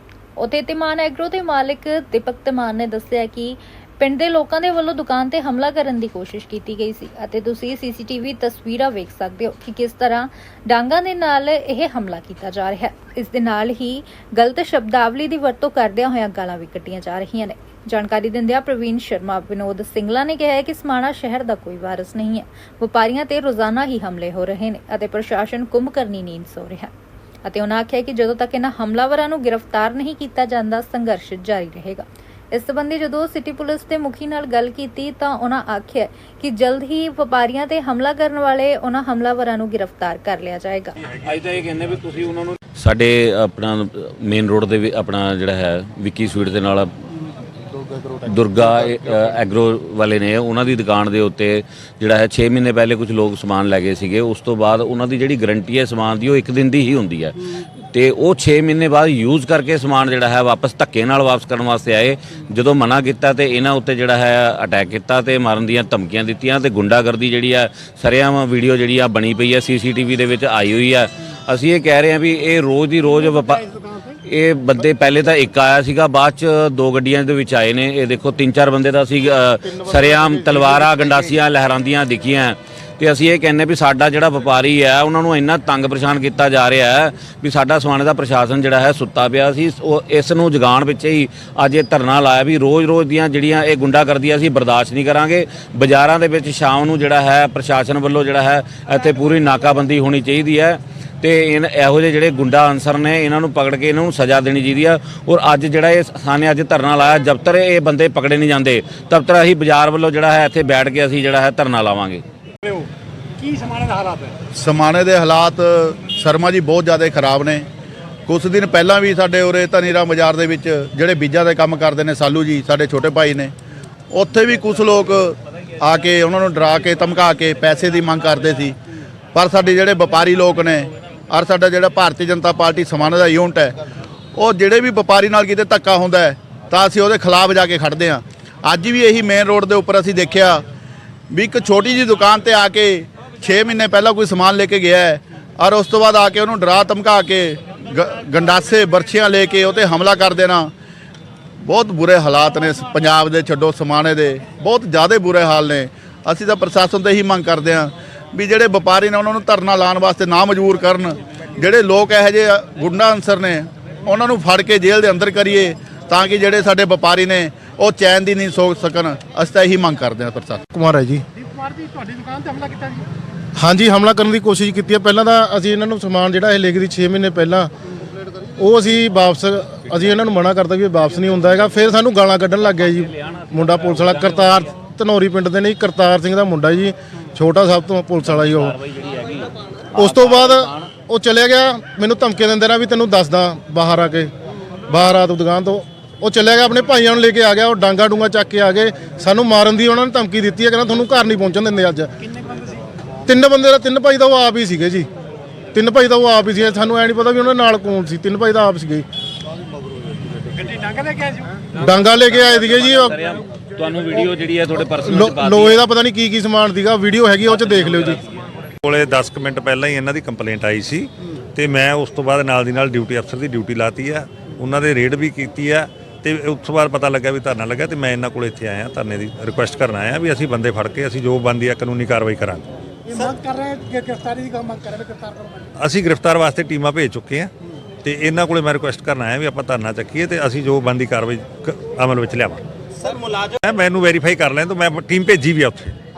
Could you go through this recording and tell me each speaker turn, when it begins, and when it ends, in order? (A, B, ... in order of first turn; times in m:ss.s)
0:00.4-0:26.9 A
0:27.4-0:41.0 A
0:41.2-0:46.9 B
0:48.2-1:52.2 B
1:19.6-1:21.4 C
1:52.6-1:54.4 D
1:54.6-1:57.7 E
1:58.3-2:03.5 E
2:04.1-2:08.8 E
2:09.3-2:13.8 E
2:14.4-2:20.6 E
2:21.3-2:30.7 E
2:31.6-2:50.6 E
2:50.7-2:51.2 C
2:51.4-2:53.1 D
2:53.6-2:57.7 C
2:58.6-3:08.8 C
3:02.6-3:04.7 B
3:08.2-3:10.9 B
3:09.9-3:14.3 C
3:14.9-3:22.1 C
3:22.4-3:22.8 D
3:23.3-3:25.1 C
3:25.7-3:29.0 C
3:30.6-3:31.6 D
3:31.8-3:35.8 B
3:31.8-3:33.2 C
3:34.9-3:38.2 C
3:37.6-3:38.2 B
3:38.8-3:52.7 F
3:53.1-3:55.7 D
3:55.8-3:57.5 F
3:58.0-4:06.0 F